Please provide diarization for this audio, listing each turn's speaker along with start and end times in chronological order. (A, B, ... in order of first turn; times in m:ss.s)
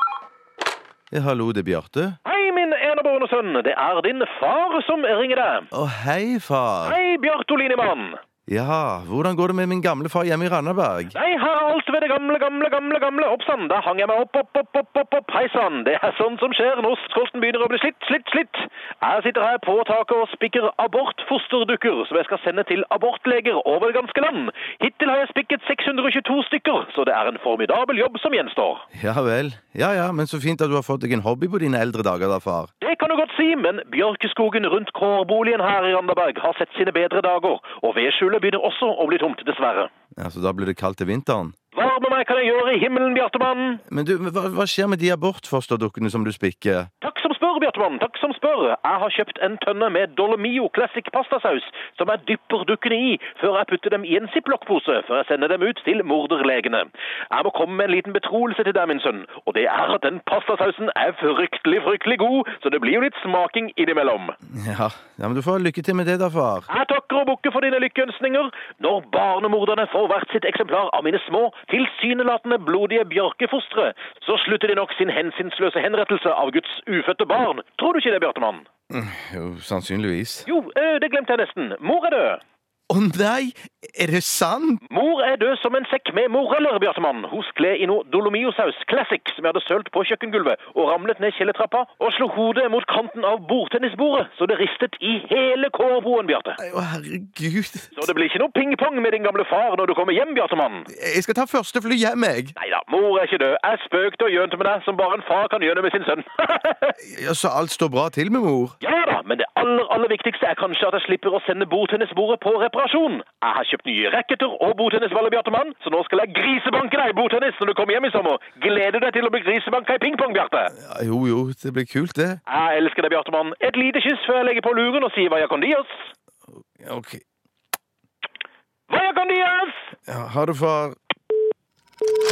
0:01.1-0:02.2 A
0:02.2-0:05.7 B
0:05.7-0:07.0 A
0:06.8-0:08.2 B
0:08.5-0:11.2 A
0:11.1-0:28.8 B
0:28.9-0:32.7 A
0:32.8-0:39.9 B
0:40.2-0:41.5 A
0:41.7-0:43.8 B
0:43.9-0:46.9 A
0:47.0-1:04.3 B
1:04.5-1:06.7 A
1:06.7-1:18.7 B
1:18.9-1:20.5 A
1:20.5-1:22.4 B
1:22.9-1:24.8 A
1:24.9-1:36.6 B
1:36.6-1:37.9 A
1:37.9-1:40.9 B
1:40.9-1:42.5 A
1:42.6-1:47.0 B
1:47.1-1:48.8 A
1:48.8-2:00.7 B
2:00.8-2:02.4 A
2:02.5-2:06.1 B
2:06.8-2:07.2 A
2:08.9-2:09.9 B
2:10.1-2:11.0 A